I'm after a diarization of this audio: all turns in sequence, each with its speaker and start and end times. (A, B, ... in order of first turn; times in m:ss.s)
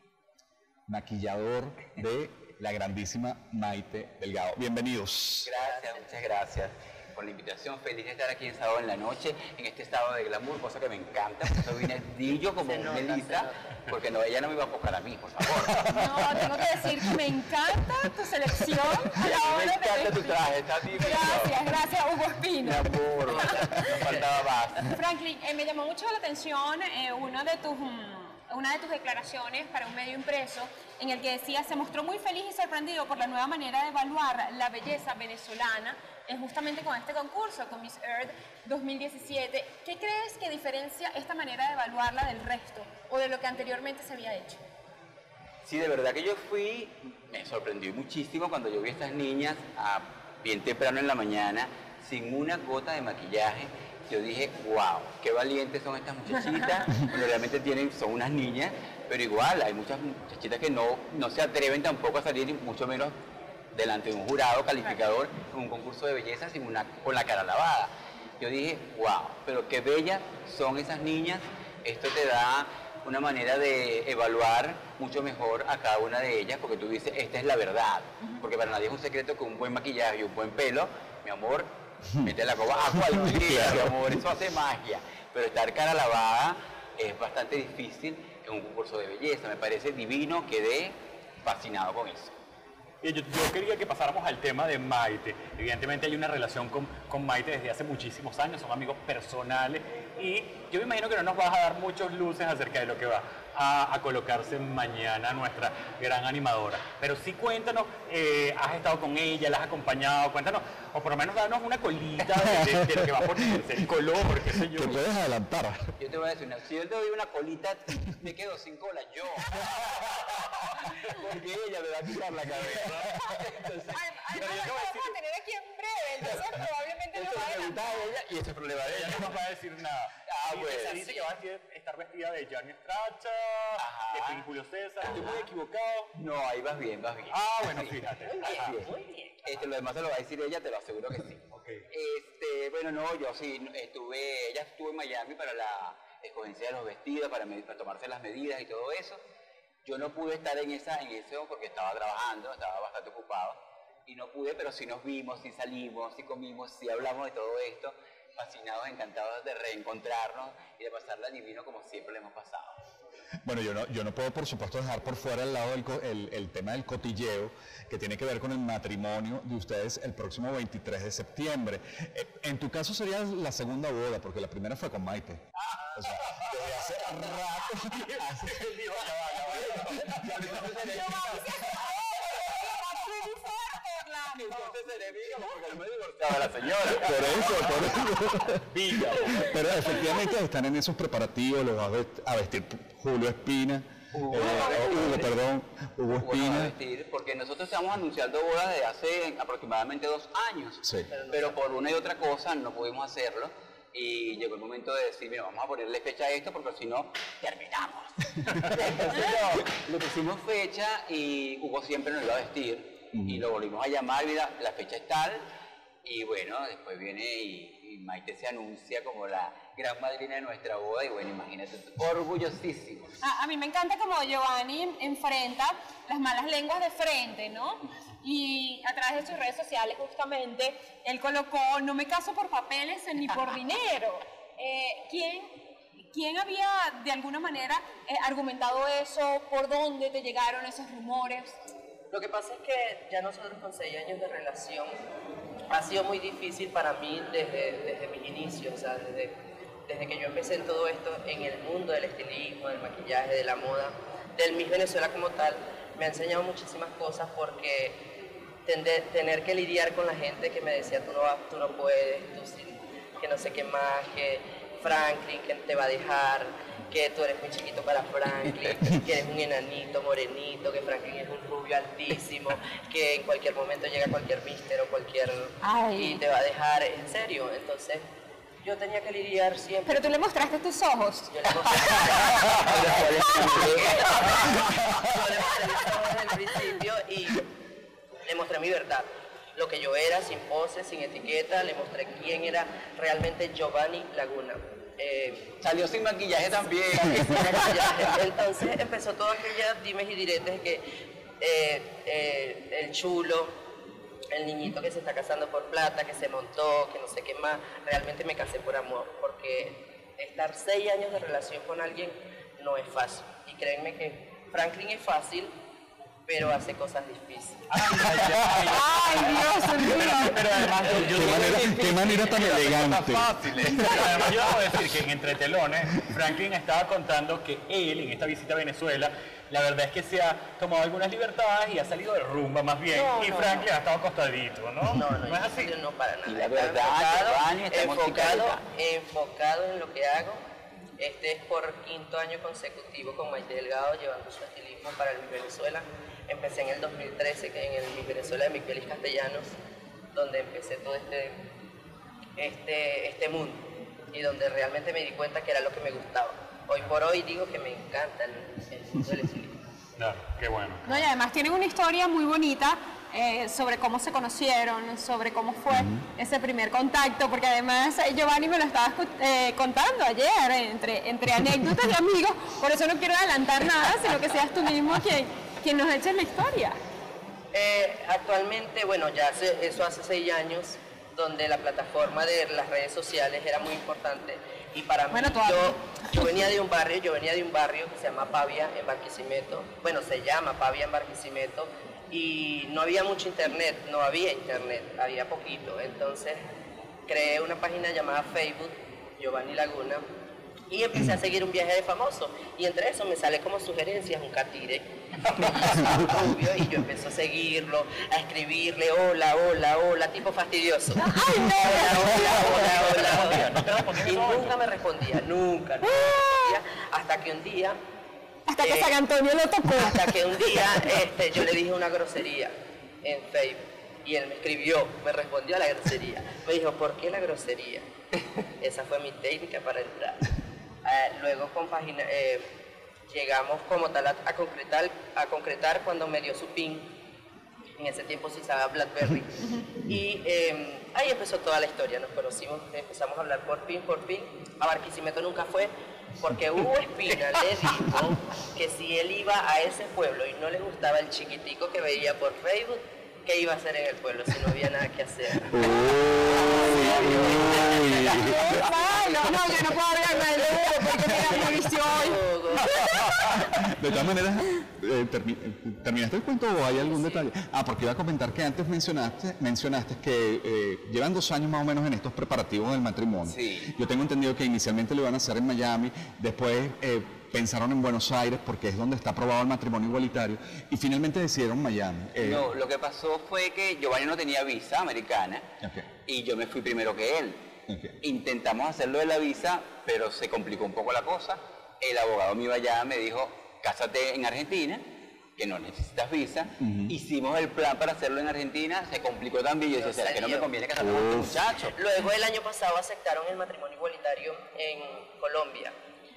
0:00.9-0:05.5 A
0:05.4-0:15.9 B
0:05.5-0:06.2 C
0:12.4-0:13.7 C
0:15.9-0:24.0 D
0:19.2-0:21.7 B
0:22.6-0:25.0 B
0:24.8-0:44.6 D
0:45.6-1:03.2 B
1:03.7-1:32.3 B
1:22.9-1:24.0 A
1:33.0-1:54.9 E
1:54.7-1:55.9 A
1:56.0-1:59.6 B
1:59.6-2:00.4 E
2:00.4-2:04.0 B
2:02.5-2:03.2 E
2:03.9-2:08.1 D
2:04.3-2:05.1 E
2:07.1-2:09.4 B
2:08.7-2:16.1 E
2:10.2-2:11.2 B
2:13.8-2:14.4 B
2:15.0-2:15.4 B
2:16.1-2:18.9 B
2:17.3-2:18.7 E
2:18.2-2:19.7 C
2:19.4-2:29.2 B
2:21.5-2:21.8 E
2:29.8-2:42.8 B
2:43.4-2:55.4 A
2:55.7-2:56.4 E
2:56.0-2:58.6 A
2:57.9-3:00.8 E
3:00.1-3:01.4 B
3:00.8-3:04.6 D
3:04.4-3:08.0 B
3:07.0-3:16.7 A
3:08.7-3:09.6 E
3:14.1-3:15.4 B
3:16.2-3:35.4 B
3:20.8-3:21.1 A
3:21.1-3:21.8 C
3:36.0-3:43.1 B
3:43.2-3:55.5 D
3:56.1-4:01.6 D
4:02.1-4:04.9 C
4:05.7-4:09.3 C
4:09.9-4:18.0 C
4:18.6-4:38.0 C
4:35.6-4:36.2 D
4:38.6-4:40.2 C
4:39.8-4:45.7 D
4:41.3-4:47.5 C
4:42.5-4:44.5 B
4:48.2-4:55.5 C
4:55.6-4:58.2 B
4:57.1-5:00.8 C
5:01.4-5:03.5 C
5:04.3-5:15.5 C
5:16.3-5:17.8 C
5:17.7-5:22.7 E
5:18.6-5:20.6 D
5:20.8-5:24.4 B
5:21.1-5:23.7 A
5:23.6-5:35.7 E
5:23.7-5:24.1 D
5:32.9-5:33.7 C
5:34.9-5:40.4 C
5:36.2-5:38.6 B
5:41.0-5:49.6 C
5:50.1-5:51.4 C
5:52.4-5:59.6 C
6:00.0-6:01.0 E
6:00.8-6:16.8 D
6:17.5-6:36.4 C
6:25.1-6:26.5 D
6:37.1-6:40.0 C
6:40.7-6:57.8 C
6:51.0-6:52.6 D
6:52.3-6:54.6 E
6:55.8-6:56.6 D
6:58.5-7:00.9 D
6:58.6-6:59.0 C
6:59.7-7:07.8 C
7:08.6-7:10.2 C
7:10.8-7:12.5 C
7:13.1-7:16.9 C
7:17.8-7:35.7 C
7:35.5-7:38.4 A
7:35.7-7:36.9 D
7:36.4-7:39.1 C
7:36.6-7:37.4 B
7:37.8-7:43.2 D
7:41.1-7:42.8 C
7:42.8-7:43.4 E
7:43.2-8:02.5 A
7:53.2-7:53.7 B
8:02.2-8:05.5 B
8:05.6-8:05.9 A
8:06.1-8:07.4 B
8:07.7-8:07.9 A
8:08.0-8:14.8 B
8:15.4-8:21.7 B
8:16.6-8:16.9 A
8:19.7-8:20.6 C
8:20.8-8:21.3 A
8:21.7-8:25.7 C